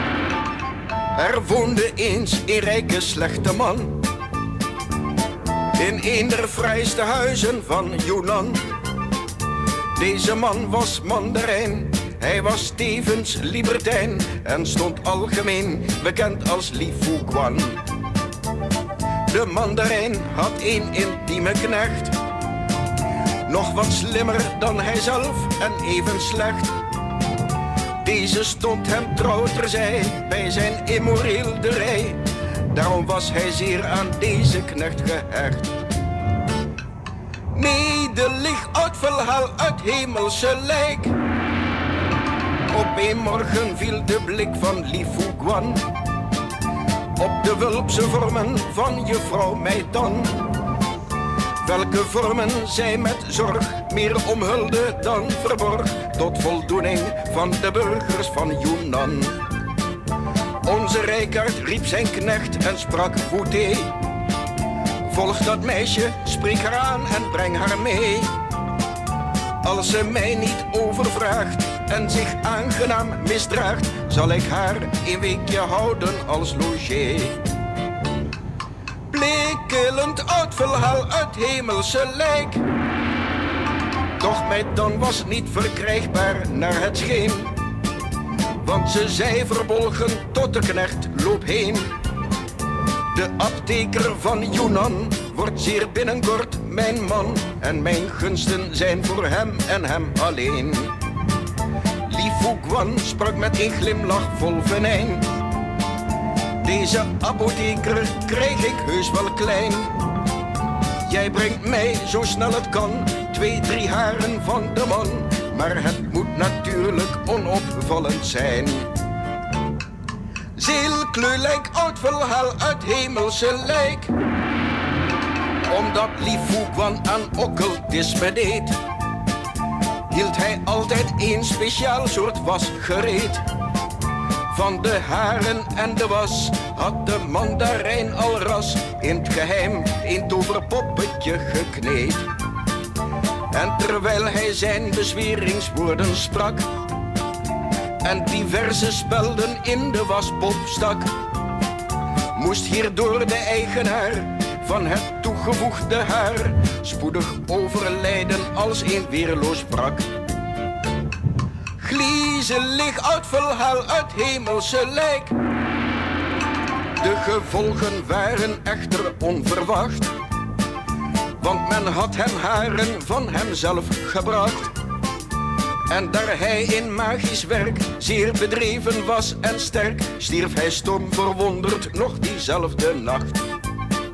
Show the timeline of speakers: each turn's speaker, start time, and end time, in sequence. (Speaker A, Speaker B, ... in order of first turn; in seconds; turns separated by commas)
Speaker A: 1.1-4.1, Speaker A: 5.7-8.6, Speaker A: 9.9-17.8, Speaker A: 19.3-22.2, Speaker A: 23.5-26.8, Speaker A: 28.0-35.8, Speaker A: 37.5-41.2, Speaker A: 42.7-45.9, Speaker A: 47.2-50.5, Speaker A: 51.6-59.4, Speaker A: 60.6-64.0, Speaker A: 65.0-68.4, Speaker A: 69.6-77.5, Speaker A: 79.1-82.6, Speaker A: 84.2-87.6, Speaker A: 88.6-91.9, Speaker A: 93.1-100.9, Speaker A: 102.1-105.3, Speaker A: 106.6-110.0, Speaker A: 111.1-118.9, Speaker A: 120.6-124.1, Speaker A: 125.7-128.8, Speaker A: 130.1-133.5, Speaker A: 134.5-142.3, Speaker A: 143.5-146.7, Speaker A: 148.0-151.2, Speaker A: 152.3-160.1, Speaker A: 161.8-165.3, Speaker A: 167.0-170.1, Speaker A: 171.4-174.7, Speaker A: 175.9-183.5